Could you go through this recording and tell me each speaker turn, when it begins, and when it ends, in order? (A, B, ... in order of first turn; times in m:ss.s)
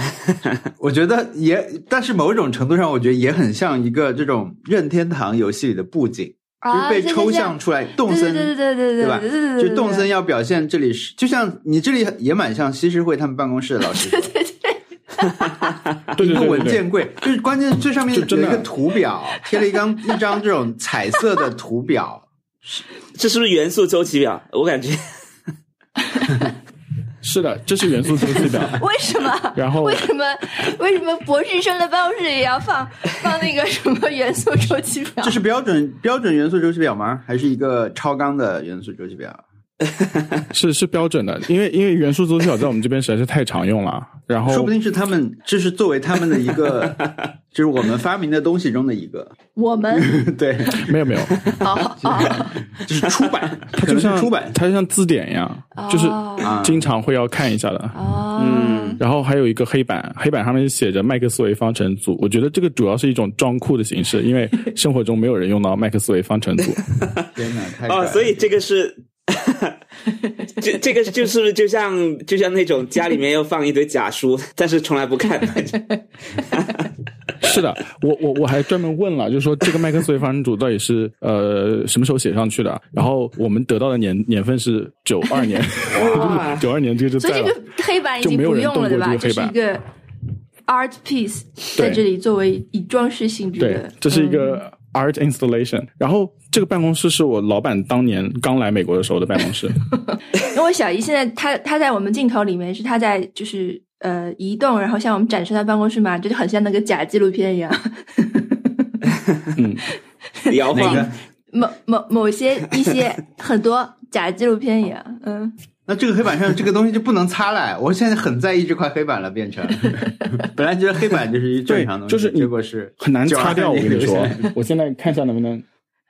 0:00.8-0:14.3 A
0:06.6-0:10.1 B
0:13.9-0:15.8 B
0:16.2-0:16.8 C
0:16.2-0:22.3 A
0:18.1-0:18.7 C
0:19.6-0:20.2 B
0:23.2-0:25.2 D
0:26.2-0:26.5 B
0:27.2-0:28.8 C
0:28.4-0:35.4 B
0:29.6-0:30.1 C
0:35.2-0:39.4 A
0:40.5-0:44.7 C
0:44.4-0:49.4 A
0:49.6-0:50.2 B
0:49.9-0:50.9 A
0:50.8-0:51.5 C
0:51.6-0:52.6 B
0:52.0-0:54.6 A
0:53.8-0:58.0 C
0:55.8-0:56.5 B
0:56.4-0:56.9 A
0:57.9-0:59.0 B
0:58.4-0:59.0 D
0:59.0-1:06.8 C
1:07.0-1:07.3 D
1:07.4-1:08.4 A
1:07.9-1:09.8 D
1:10.5-1:16.9 D
1:17.4-1:27.6 C
1:25.9-1:26.7 D
1:27.2-1:29.8 B
1:28.2-1:29.6 C
1:30.7-1:34.6 B
1:31.8-1:32.0 C
1:33.6-1:39.8 C
1:40.4-1:48.9 B
1:49.6-1:49.8 C
1:50.5-1:51.1 D
1:50.5-1:55.6 B
1:50.7-1:51.2 A
1:55.9-2:04.5 A
2:01.7-2:05.6 C